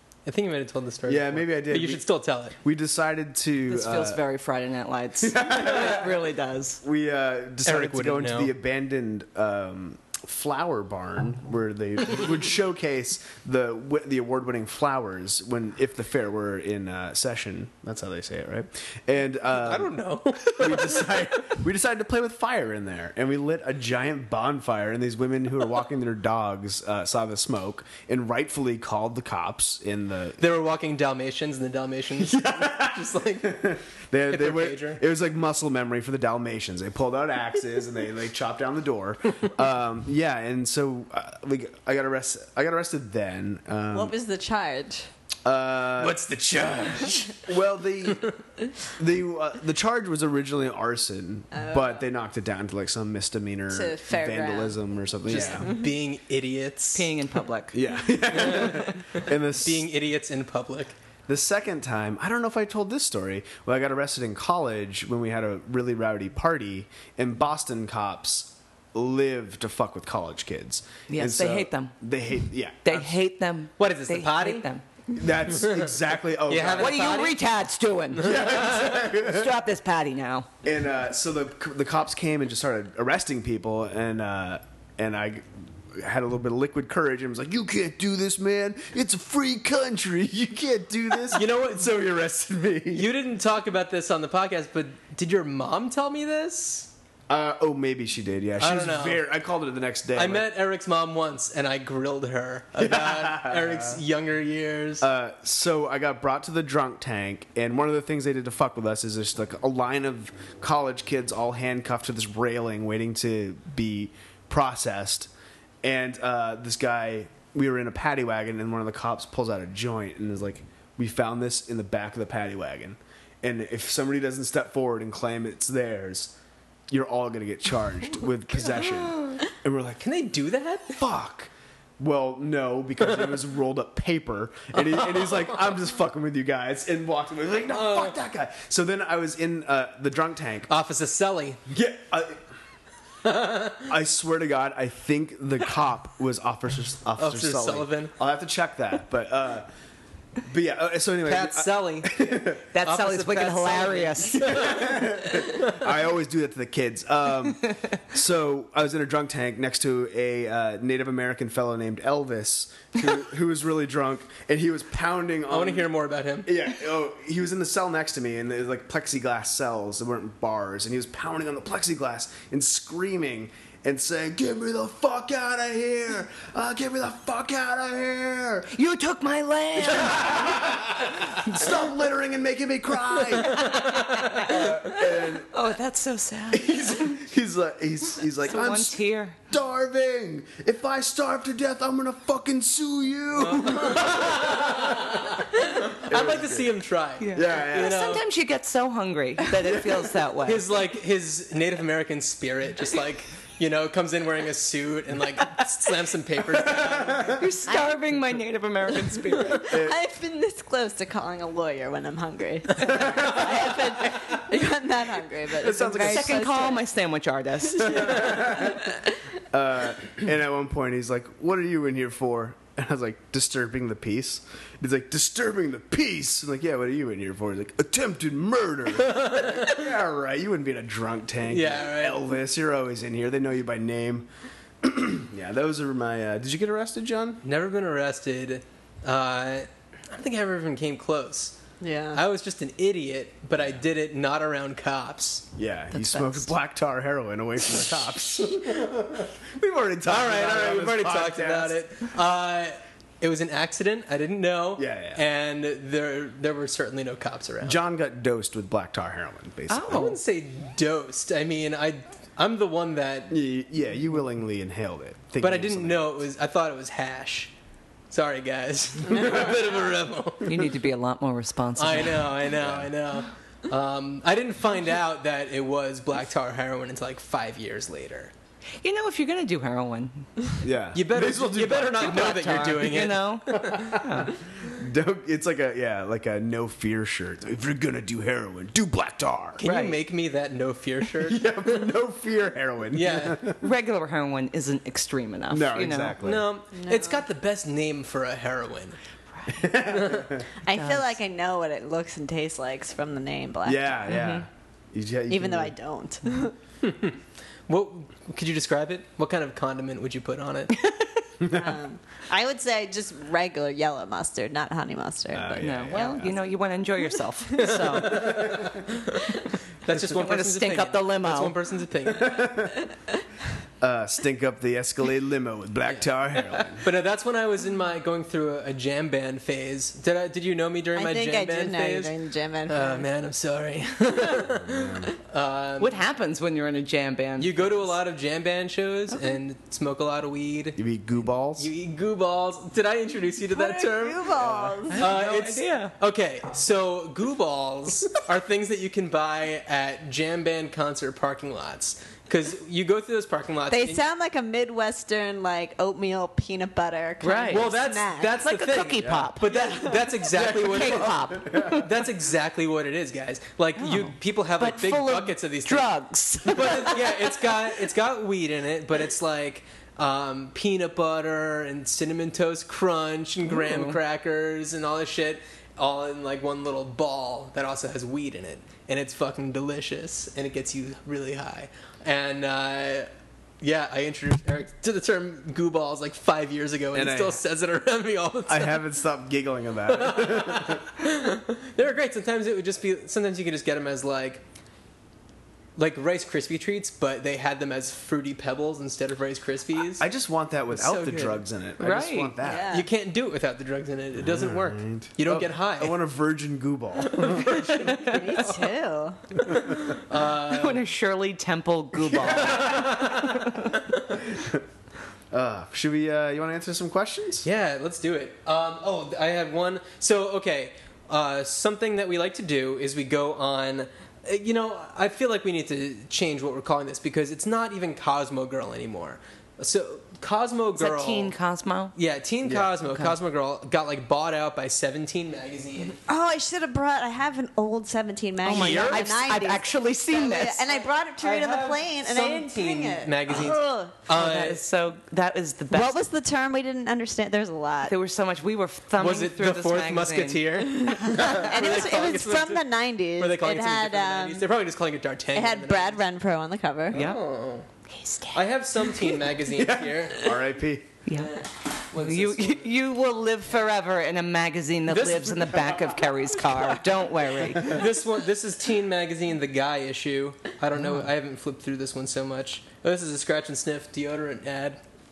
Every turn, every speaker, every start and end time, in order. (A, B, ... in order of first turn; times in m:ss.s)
0:00.3-0:02.6 A
0:01.1-0:02.0 B
0:02.6-0:04.2 B
0:03.7-0:06.8 C
0:05.2-0:06.2 B
0:06.8-0:20.0 B
0:07.6-0:08.5 A
0:19.6-0:21.6 A
0:20.5-0:30.4 B
0:30.4-0:33.8 A
0:32.2-0:44.1 B
0:34.3-0:35.0 A
0:43.9-0:45.1 D
0:45.4-0:46.2 B
0:46.0-0:47.5 A
0:46.9-0:48.3 B
0:49.0-0:55.7 B
0:51.5-0:52.0 D
0:53.7-0:54.8 D
0:55.3-0:57.1 A
0:55.6-0:55.9 D
0:56.9-0:57.8 C
0:57.7-0:59.9 B
0:58.3-1:00.9 A
0:58.4-0:58.9 C
1:01.3-1:13.1 B
1:11.1-1:11.9 C
1:12.8-1:14.8 C
1:13.8-1:14.7 A
1:15.1-1:17.3 B
1:15.5-1:17.4 A
1:16.7-1:20.5 C
1:18.1-1:19.0 A
1:18.2-1:19.5 B
1:20.6-1:33.1 B
1:31.3-1:32.2 A
1:32.9-1:36.9 A
1:37.3-1:40.5 B
1:38.6-1:39.2 A
1:40.2-1:45.1 A
1:42.8-1:44.0 B
1:45.0-1:55.3 B
1:55.8-2:06.3 B
2:06.9-2:10.1 B
2:10.0-2:11.0 A
2:10.9-2:20.7 B
2:14.8-2:15.4 A
2:17.7-2:18.2 A
2:20.7-2:21.6 A
2:21.7-2:22.4 B
2:23.2-2:23.9 A
2:23.8-2:29.7 B
2:27.2-2:28.1 A
2:30.4-2:32.7 B
2:31.2-2:32.2 A
2:32.7-2:34.7 C
2:32.8-2:35.9 A
2:34.4-2:45.9 B
2:45.5-2:46.5 A
2:46.4-2:58.7 B
2:58.7-3:00.6 C
2:59.8-3:05.5 B
3:01.3-3:01.7 C
3:03.5-3:04.4 A
3:03.5-3:07.2 C
3:06.5-3:16.7 B
3:08.4-3:09.4 C
3:13.4-3:18.2 A
3:17.2-3:20.7 C
3:17.3-3:18.0 B
3:19.7-3:19.9 B
3:20.4-3:27.4 A
3:26.5-3:27.4 B
3:27.3-3:29.7 C
3:27.7-3:28.0 D
3:29.4-3:36.8 D
3:29.6-3:30.0 B
3:32.8-3:33.6 B
3:35.6-3:36.5 B
3:35.9-3:38.4 C
3:37.8-3:38.9 B
3:37.8-3:39.1 D
3:39.5-3:54.3 B
3:49.0-3:49.9 A
3:51.5-3:52.2 A
3:54.8-3:57.4 B
3:57.4-4:01.6 A
4:01.8-4:02.2 D
4:02.1-4:05.4 A
4:05.6-4:11.8 B
4:05.9-4:06.5 C
4:10.1-4:17.8 A
4:14.8-4:15.2 B
4:17.6-4:20.2 B
4:19.7-4:20.2 C
4:19.9-4:23.4 A
4:23.3-4:26.2 B
4:25.4-4:27.5 A
4:28.1-4:30.7 A
4:30.4-4:32.4 C
4:31.8-4:38.3 A
4:32.5-4:32.9 B
4:38.8-4:40.5 C
4:40.6-4:42.8 B
4:40.9-4:44.0 A
4:42.0-4:44.4 C
4:43.6-4:49.6 B
4:49.6-4:51.9 A
4:49.6-4:50.0 C
4:51.2-4:53.6 B
4:52.9-4:53.4 A
4:53.6-4:56.2 C
4:55.5-4:56.5 B
4:56.2-4:59.0 A
4:56.7-4:57.2 D
4:59.4-4:59.7 C
4:59.5-5:00.5 B
4:59.9-5:00.3 A
5:00.6-5:04.0 D
5:00.7-5:01.1 C
5:03.6-5:05.7 B
5:04.1-5:04.4 C
5:05.3-5:06.5 D
5:06.8-5:07.2 A
5:07.7-5:10.8 A
5:11.4-5:11.8 B
5:11.5-5:15.8 D
5:15.3-5:16.4 B
5:15.6-5:18.7 C
5:17.6-5:22.6 A
5:19.9-5:21.6 C
5:22.1-5:22.9 B
5:23.8-5:26.8 B
5:25.9-5:32.1 A
5:31.0-5:33.1 D
5:32.7-5:36.0 A
5:34.5-5:35.1 B
5:35.8-5:37.9 C
5:37.4-5:40.8 A
5:39.1-5:39.4 C
5:40.8-5:41.7 B
5:41.6-5:44.4 A
5:43.5-5:45.0 D
5:44.4-5:44.8 B
5:44.9-5:45.9 C
5:44.9-5:54.0 A
5:53.7-5:58.4 D
5:57.2-5:57.7 C
5:57.5-6:05.9 A
5:58.4-5:59.5 C
5:59.0-5:59.3 B
5:59.5-6:00.2 D
6:00.3-6:01.9 B
6:00.4-6:01.8 C
6:03.8-6:07.1 C
6:06.4-6:23.1 A
6:13.5-6:14.0 C
6:23.6-6:28.8 A
6:26.9-6:27.4 B
6:28.5-6:30.9 B
6:29.9-6:34.4 A
6:35.8-6:40.1 A
6:40.0-6:42.7 B
6:40.7-6:41.4 A
6:41.8-6:42.4 C
6:42.4-6:42.9 D
6:42.7-6:46.0 A
6:44.2-6:47.9 B
6:47.0-6:48.6 A
6:47.9-6:49.4 D
6:47.9-6:48.2 C
6:49.4-6:50.8 A
6:50.4-6:53.8 C
6:52.0-6:54.2 A
6:52.3-6:52.7 B
6:54.2-6:54.6 B
6:55.3-6:57.5 B
6:57.4-7:11.3 A
7:10.8-7:11.9 C
7:12.0-7:16.0 A
7:12.4-7:12.7 B
7:12.8-7:13.2 C
7:16.1-7:24.0 D
7:18.4-7:20.6 C
7:18.5-7:19.2 A
7:21.2-7:24.6 A
7:24.1-7:26.0 C
7:25.7-7:28.0 D
7:27.9-7:30.4 C
7:29.0-7:36.0 A
7:30.8-7:34.5 D
7:31.0-7:31.6 C
7:35.3-7:37.0 D
7:36.9-7:37.7 A
7:36.9-7:37.2 C
7:37.9-7:38.4 C
7:38.3-7:40.4 A
7:39.5-7:40.9 B
7:41.1-7:47.9 C
7:41.9-7:42.7 A
7:44.9-7:46.8 A
7:47.6-7:54.8 A
7:50.8-7:51.1 C